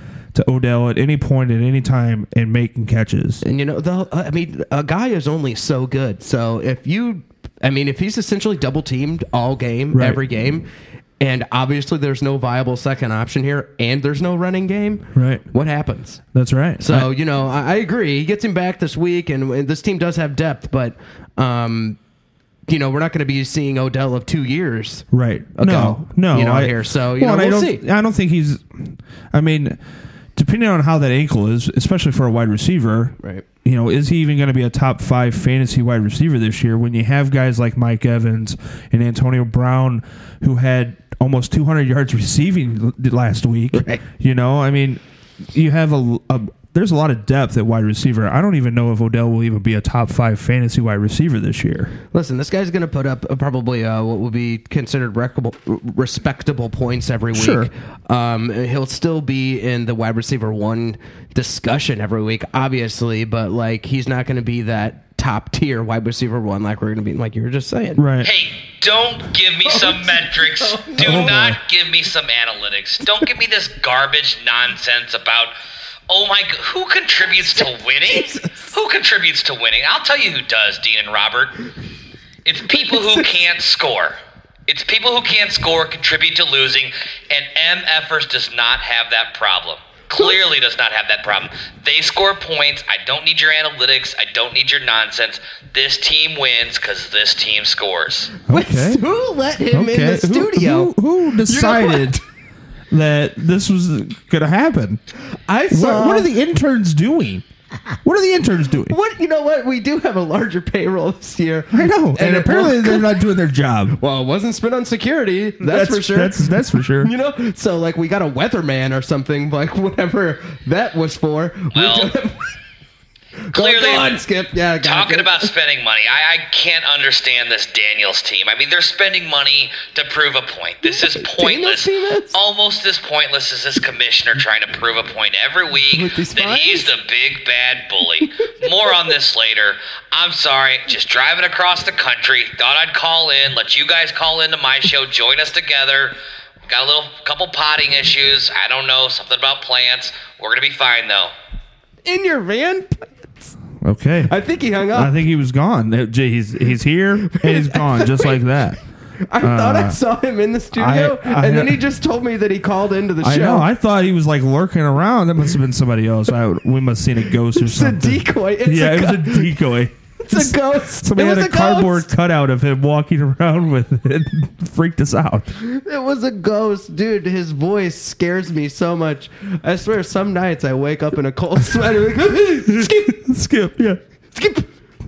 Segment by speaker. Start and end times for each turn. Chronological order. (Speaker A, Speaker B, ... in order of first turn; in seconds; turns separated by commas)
Speaker A: 0.3-3.4, Speaker B: 3.4-10.7, Speaker A: 9.9-10.2, Speaker B: 11.2-16.2, Speaker A: 15.2-15.4, Speaker A: 16.3-17.1, Speaker B: 16.8-22.0, Speaker B: 22.7-27.8, Speaker A: 25.1-29.8, Speaker A: 30.4-52.0, Speaker B: 43.7-44.0, Speaker B: 52.1-68.0, Speaker A: 57.3-57.7, Speaker A: 68.0-68.3, Speaker C: 68.2-75.5, Speaker B: 69.6-71.5, Speaker A: 71.0-71.6, Speaker C: 76.1-81.5, Speaker B: 77.4-78.8, Speaker C: 82.5-98.3, Speaker B: 82.7-83.3, Speaker A: 98.5-99.0, Speaker B: 98.5-102.2, Speaker A: 99.7-102.2, Speaker A: 102.9-105.0, Speaker B: 105.5-106.3, Speaker A: 105.7-107.5, Speaker A: 108.0-109.0, Speaker B: 108.9-113.2, Speaker A: 111.7-114.0, Speaker B: 114.0-122.5, Speaker A: 115.6-117.1, Speaker C: 121.7-122.1, Speaker B: 123.5-125.5, Speaker C: 123.5-124.2, Speaker C: 124.8-146.2, Speaker B: 130.9-132.4, Speaker B: 135.9-136.9, Speaker C: 146.7-151.3, Speaker B: 152.1-153.5, Speaker A: 153.8-154.3, Speaker B: 154.3-155.2, Speaker A: 154.9-158.8, Speaker B: 157.2-158.4, Speaker B: 159.3-163.7, Speaker A: 159.4-160.0, Speaker A: 160.7-161.8, Speaker A: 163.2-175.5, Speaker B: 167.6-169.6, Speaker B: 170.2-172.1, Speaker B: 175.6-183.2, Speaker A: 182.7-184.0, Speaker B: 184.3-184.7